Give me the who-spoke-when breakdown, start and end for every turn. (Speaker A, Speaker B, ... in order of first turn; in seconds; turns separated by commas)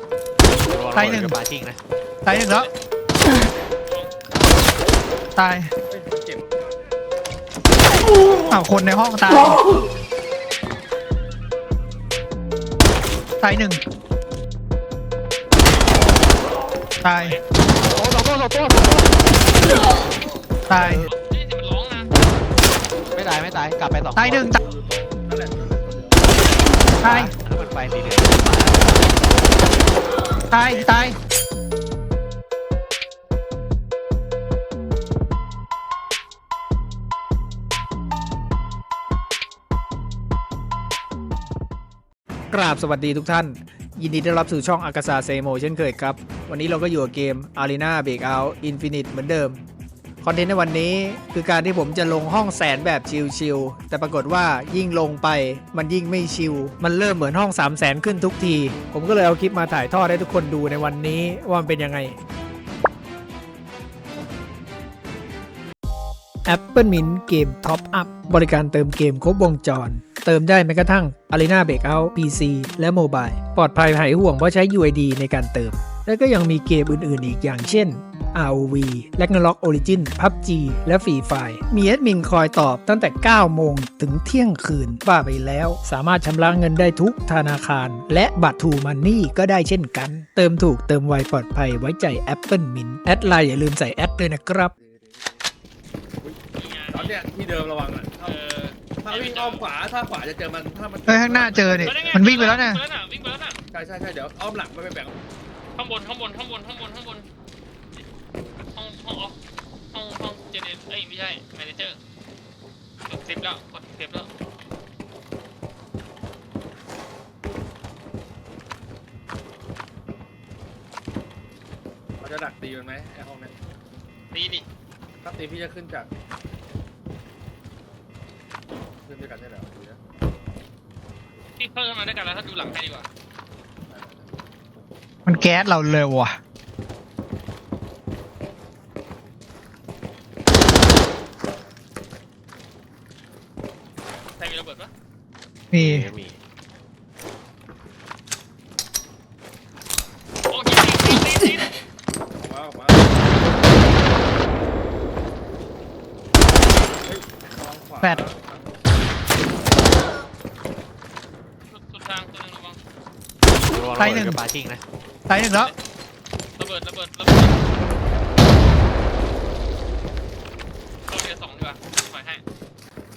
Speaker A: 0.5-1.8, Speaker B: 0.9-1.4, Speaker B: 2.2-2.7, Speaker C: 2.5-2.7, Speaker C: 3.9-4.1, Speaker B: 5.3-5.7, Speaker D: 5.9-6.5, Speaker B: 8.5-9.6, Speaker B: 13.4-13.8, Speaker B: 17.0-17.4, Speaker C: 17.1-17.4, Speaker A: 17.8-19.2, Speaker B: 20.7-21.1, Speaker A: 20.7-21.1, Speaker C: 21.1-22.1, Speaker A: 23.1-24.5, Speaker B: 24.1-24.6, Speaker D: 24.4-26.5, Speaker B: 27.0-27.3, Speaker A: 27.0-29.7, Speaker B: 30.5-31.2, Speaker E: 42.5-49.6, Speaker E: 50.2-62.1, Speaker E: 66.5-94.7, Speaker D: 94.8-95.5, Speaker D: 96.2-98.4, Speaker C: 96.5-97.2, Speaker C: 98.2-99.7, Speaker D: 99.0-102.5, Speaker B: 101.1-102.8, Speaker C: 101.8-103.6, Speaker D: 103.7-105.2, Speaker C: 105.8-107.3, Speaker C: 108.7-109.4, Speaker C: 109.9-112.0, Speaker C: 113.0-114.3, Speaker D: 122.2-123.5, Speaker C: 124.3-124.7, Speaker D: 125.2-126.1, Speaker D: 129.0-130.0, Speaker C: 131.6-133.1, Speaker D: 133.9-134.3, Speaker B: 135.2-136.4, Speaker C: 144.4-144.9, Speaker B: 145.7-146.1, Speaker A: 145.7-146.4, Speaker C: 150.5-151.7, Speaker D: 152.3-153.3, Speaker D: 157.0-158.8, Speaker C: 161.7-162.8, Speaker A: 163.6-164.8, Speaker B: 164.0-164.4, Speaker B: 165.3-165.7, Speaker C: 166.6-167.6, Speaker C: 171.1-172.4